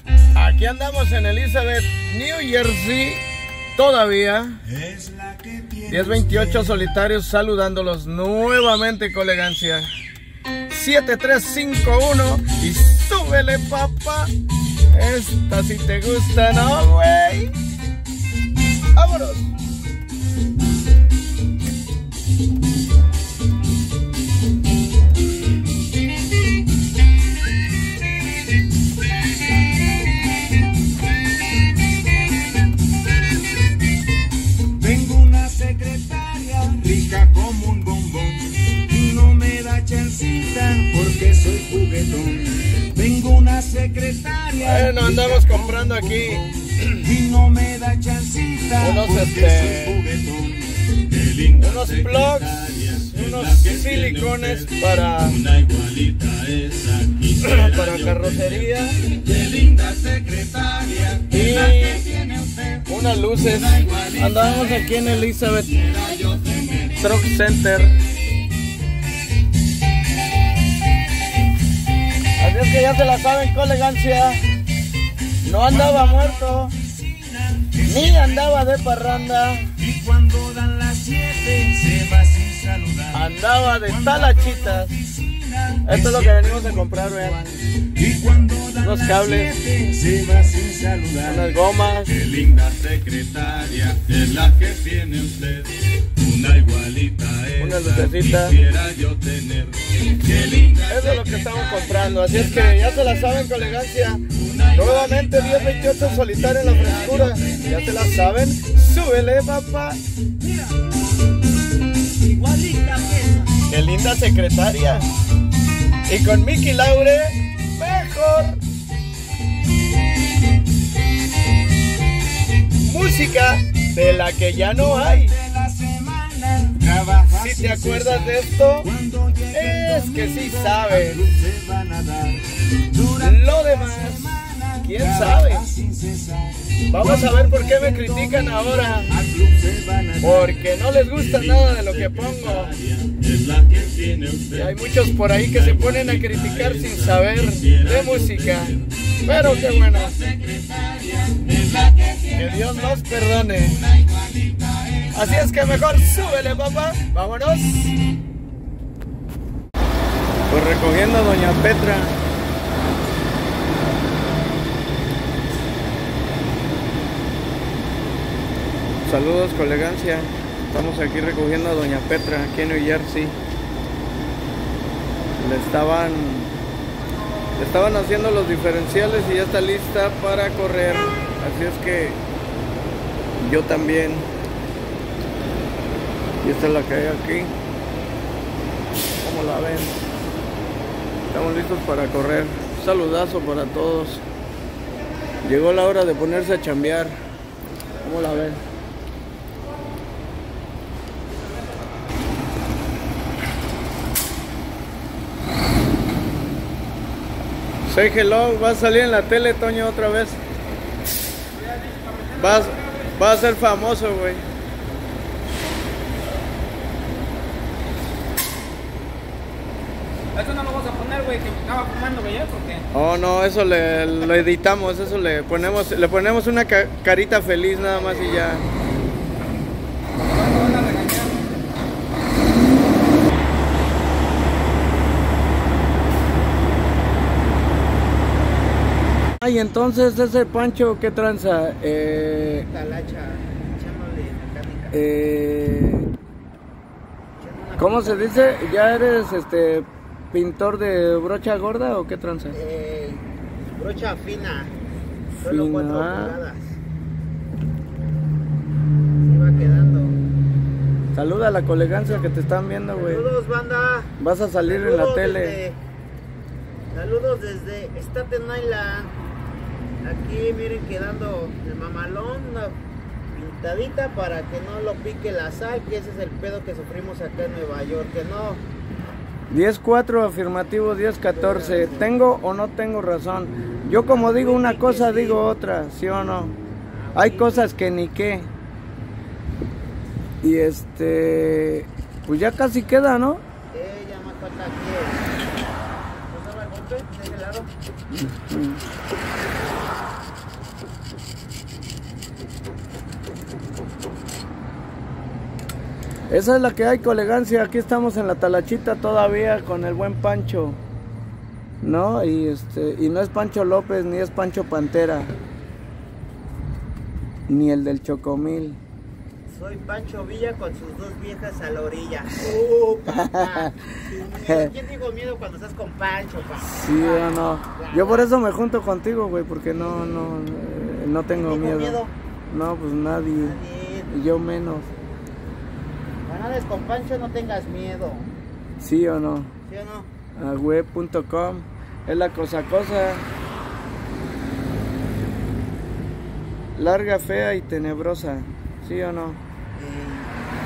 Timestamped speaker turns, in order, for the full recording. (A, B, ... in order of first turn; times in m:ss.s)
0:00.3-0:03.2 A
0:03.8-0:04.6 A
0:04.7-0:06.9 B
0:05.9-0:09.9 A
0:10.7-0:14.3 A
0:14.9-0:17.5 A
0:18.9-0:19.4 A
0:34.8-1:07.0 B
0:44.6-0:46.4 A
0:48.8-0:50.0 A
0:51.5-0:55.4 A
0:57.4-0:59.0 A
1:01.3-1:02.1 A
1:02.9-1:05.7 A
1:07.0-1:08.0 A
1:12.4-1:14.4 A
1:15.4-1:16.7 A
1:15.6-1:19.1 B
1:17.8-1:19.7 A
1:19.8-1:43.8 B
1:23.1-1:24.9 A
1:25.8-1:27.6 A
1:28.8-1:29.5 A
1:31.2-1:32.1 A
1:37.6-1:38.6 A
1:40.9-1:50.0 A
1:44.3-1:48.1 B
1:50.4-1:50.9 B
1:52.2-1:53.5 B
1:53.7-1:55.1 A
1:56.1-1:58.6 A
2:02.8-2:05.3 A
2:04.7-2:24.7 B
2:07.3-2:08.9 A
2:09.5-2:11.2 A
2:13.2-2:15.7 A
2:16.9-2:19.1 A
2:20.2-2:22.8 A
2:24.5-2:30.2 A
2:25.4-2:33.0 B
2:32.4-2:33.8 A
2:33.6-2:36.7 B
2:35.1-2:37.7 A
2:40.5-2:42.2 A
2:49.0-2:53.4 A
2:55.4-2:56.5 A
2:57.6-3:02.2 A
3:03.4-3:04.3 A
3:06.4-3:07.5 A
3:09.2-3:10.0 A
3:11.3-3:14.2 A
3:15.4-3:17.2 A
3:18.0-3:18.6 A
3:27.9-3:30.4 A
3:31.6-3:33.1 C
3:32.4-3:34.4 A
3:40.3-3:42.9 C
3:42.9-3:48.6 A
3:50.2-3:51.5 C
3:59.4-4:02.7 A
4:02.6-4:05.0 C
4:04.9-4:06.1 A
4:07.4-4:08.7 C
4:07.8-4:12.6 A
4:12.5-4:13.2 C
4:13.8-4:14.7 C
4:15.4-4:16.4 A
4:15.4-4:16.8 C
4:19.2-4:20.2 C
4:21.1-4:23.3 A
4:22.0-4:22.3 C
4:22.9-4:25.8 C
4:24.2-4:25.6 A
4:26.9-4:29.1 C
4:30.0-4:32.8 C
4:33.3-4:38.6 C
4:39.5-4:46.6 A
4:41.3-4:42.1 C
4:44.1-4:45.4 C
4:46.8-4:47.7 C
4:47.1-4:48.5 A
4:50.4-4:53.4 A
4:53.7-4:55.2 C
4:56.3-4:57.7 C
4:58.1-4:58.8 A
5:06.3-5:10.8 A
5:11.8-5:15.3 A
5:17.5-5:18.8 A
5:19.5-5:28.3 C
5:23.1-5:23.9 A
5:24.4-5:24.7 A
5:26.7-5:33.6 A
5:31.4-5:32.1 C
5:33.3-5:34.1 C
5:34.1-5:34.9 A
5:36.2-5:38.3 C
5:38.8-5:39.5 A
5:39.7-5:40.1 C
5:40.4-5:43.2 A
5:46.8-5:49.4 A
5:49.7-5:50.3 C